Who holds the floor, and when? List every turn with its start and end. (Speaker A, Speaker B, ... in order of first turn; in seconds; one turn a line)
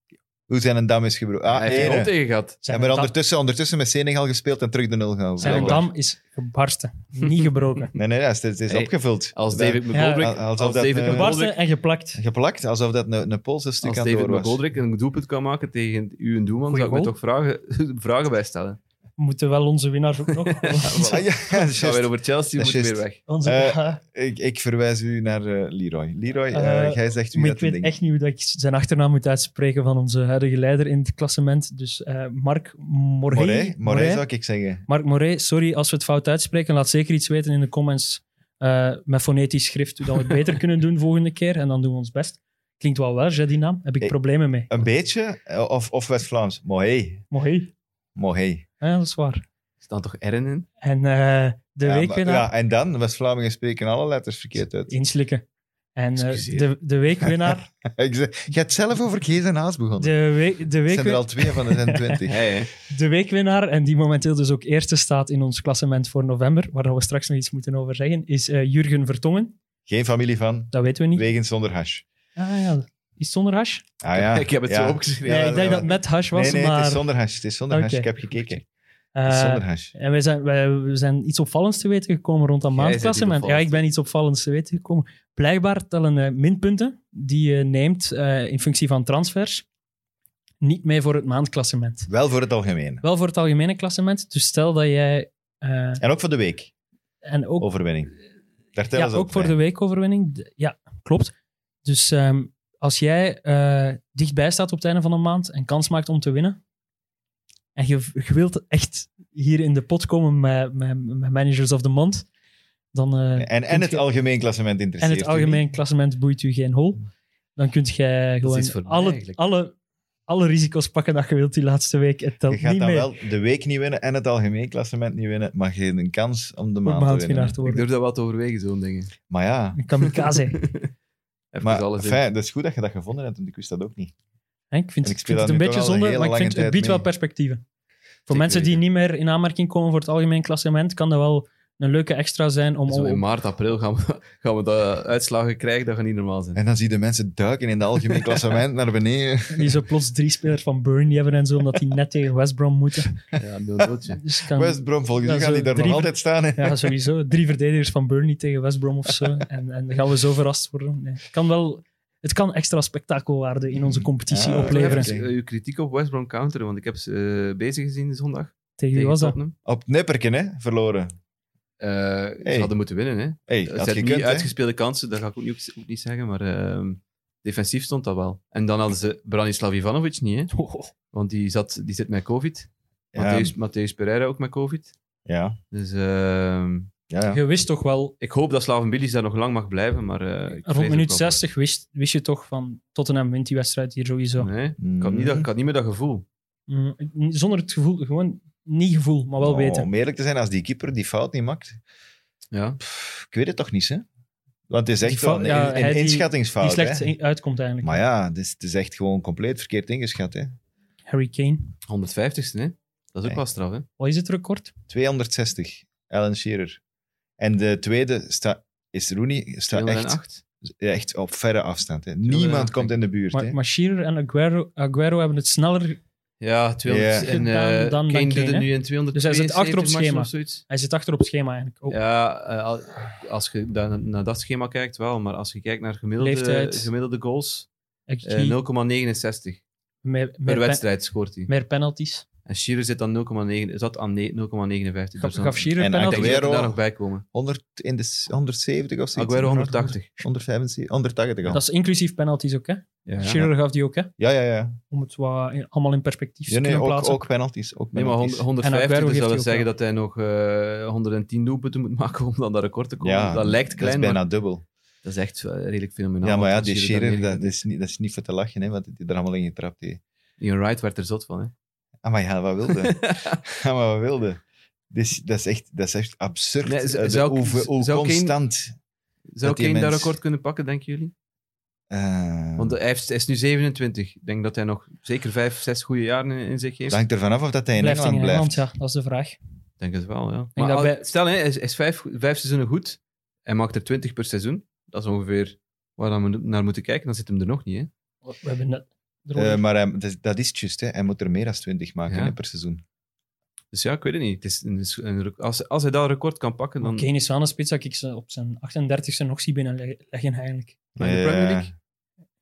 Speaker A: 0.5-5.9
Speaker B: 1.5-2.6
Speaker C: 1.7-2.0
Speaker C: 2.6-3.1
Speaker C: 5.4-7.9
Speaker B: 5.4-5.8
Speaker A: 8.0-11.4
Speaker B: 8.7-11.6
Speaker C: 9.9-10.3
Speaker C: 11.0-12.2
Speaker A: 12.2-14.6
Speaker B: 13.8-18.8
Speaker C: 16.7-17.1
Speaker C: 19.2-21.2
Speaker B: 20.4-23.2
Speaker A: 21.0-27.9
Speaker C: 23.3-24.0
Speaker C: 26.5-34.2
Speaker A: 33.3-34.9
Speaker C: 34.9-44.8
Speaker A: 44.7-47.2
Speaker C: 47.3-47.7
Speaker A: 48.2-48.7
Speaker C: 48.8-49.4
Speaker B: 49.8-50.7
Speaker C: 50.8-52.5
Speaker A: 51.9-54.9
Speaker C: 54.9-57.7
Speaker B: 56.2-56.7
Speaker A: 57.3-60.1
Speaker C: 60.0-62.2
Speaker A: 60.9-62.6
Speaker B: 62.3-62.7
Speaker C: 62.9-69.5
Speaker A: 69.9-72.0
Speaker C: 70.7-71.2
Speaker C: 72.4-73.8
Speaker A: 74.0-78.7
Speaker B: 74.1-75.9
Speaker C: 75.2-77.1
Speaker C: 77.7-78.6
Speaker C: 79.2-89.7
Speaker A: 79.2-79.9
Speaker B: 82.7-83.8
Speaker C: 90.6-92.1
Speaker A: 92.1-93.0
Speaker C: 93.0-96.0
Speaker A: 96.0-96.7
Speaker C: 97.2-97.7
Speaker A: 97.6-98.1
Speaker A: 98.7-99.6
Speaker C: 98.9-101.3
Speaker C: 101.8-106.6
Speaker C: 107.8-112.3
Speaker C: 112.9-114.0
Speaker A: 113.4-115.6
Speaker C: 115.0-119.7
Speaker B: 118.4-119.4
Speaker C: 120.3-123.1
Speaker A: 122.5-127.6
Speaker C: 126.8-127.9
Speaker B: 127.7-129.2
Speaker A: 129.3-129.8
Speaker C: 129.8-130.6
Speaker B: 130.3-130.9
Speaker B: 131.5-132.2
Speaker A: 131.6-134.1
Speaker C: 134.7-137.6
Speaker A: 135.0-137.1
Speaker C: 138.3-143.2
Speaker B: 138.3-138.8
Speaker B: 142.9-146.6
Speaker A: 146.6-149.8
Speaker C: 149.5-153.2
Speaker B: 153.4-154.2
Speaker C: 154.2-165.1
Speaker A: 154.5-156.9
Speaker A: 163.8-165.3
Speaker B: 164.5-169.6
Speaker C: 168.8-169.4
Speaker A: 169.7-171.1
Speaker B: 171.8-180.5
Speaker A: 172.4-172.7
Speaker A: 173.5-174.5
Speaker C: 180.5-180.9
Speaker B: 181.1-184.9
Speaker A: 183.1-183.5
Speaker A: 185.3-185.6
Speaker B: 185.7-186.9
Speaker A: 187.1-187.4
Speaker C: 187.3-188.1
Speaker B: 188.2-191.4
Speaker C: 190.7-194.5
Speaker B: 194.4-196.2
Speaker A: 194.8-195.5
Speaker C: 196.7-199.9
Speaker A: 199.4-201.8
Speaker B: 202.5-202.8
Speaker A: 202.8-204.1
Speaker A: 204.7-207.1
Speaker C: 205.0-208.0
Speaker A: 207.8-210.5
Speaker C: 211.1-211.8
Speaker B: 211.9-213.9
Speaker C: 214.0-214.7
Speaker A: 214.9-216.8
Speaker A: 217.4-220.2
Speaker B: 219.7-220.4
Speaker A: 220.7-223.6
Speaker B: 222.2-222.9
Speaker C: 223.3-226.0
Speaker B: 226.4-230.6
Speaker A: 226.8-227.3
Speaker C: 227.2-232.0
Speaker B: 231.9-237.7
Speaker C: 236.2-236.9
Speaker C: 238.1-238.6
Speaker B: 238.2-239.6
Speaker C: 240.0-240.8
Speaker B: 240.5-241.5
Speaker C: 241.5-242.3
Speaker B: 242.5-247.2
Speaker C: 245.2-246.4
Speaker A: 245.8-246.8
Speaker A: 247.3-251.6
Speaker B: 249.2-250.1
Speaker C: 251.5-254.1
Speaker B: 253.1-253.5
Speaker A: 254.2-254.8
Speaker C: 254.9-257.3
Speaker A: 256.5-258.4
Speaker B: 257.9-264.2
Speaker C: 258.6-259.7
Speaker A: 263.0-264.6
Speaker B: 265.0-267.6
Speaker A: 266.2-270.0
Speaker B: 270.4-271.5
Speaker A: 272.0-278.7
Speaker B: 272.8-273.4
Speaker B: 276.6-278.4
Speaker B: 279.3-281.1
Speaker A: 279.4-280.1
Speaker A: 281.9-282.8
Speaker B: 282.6-287.0
Speaker A: 286.9-288.6
Speaker C: 287.8-289.4
Speaker B: 289.8-297.9
Speaker C: 290.6-291.1
Speaker C: 298.2-299.6
Speaker A: 299.4-302.8
Speaker B: 302.1-302.4
Speaker B: 303.7-307.1
Speaker C: 306.8-310.8
Speaker A: 311.0-311.7
Speaker B: 311.0-311.7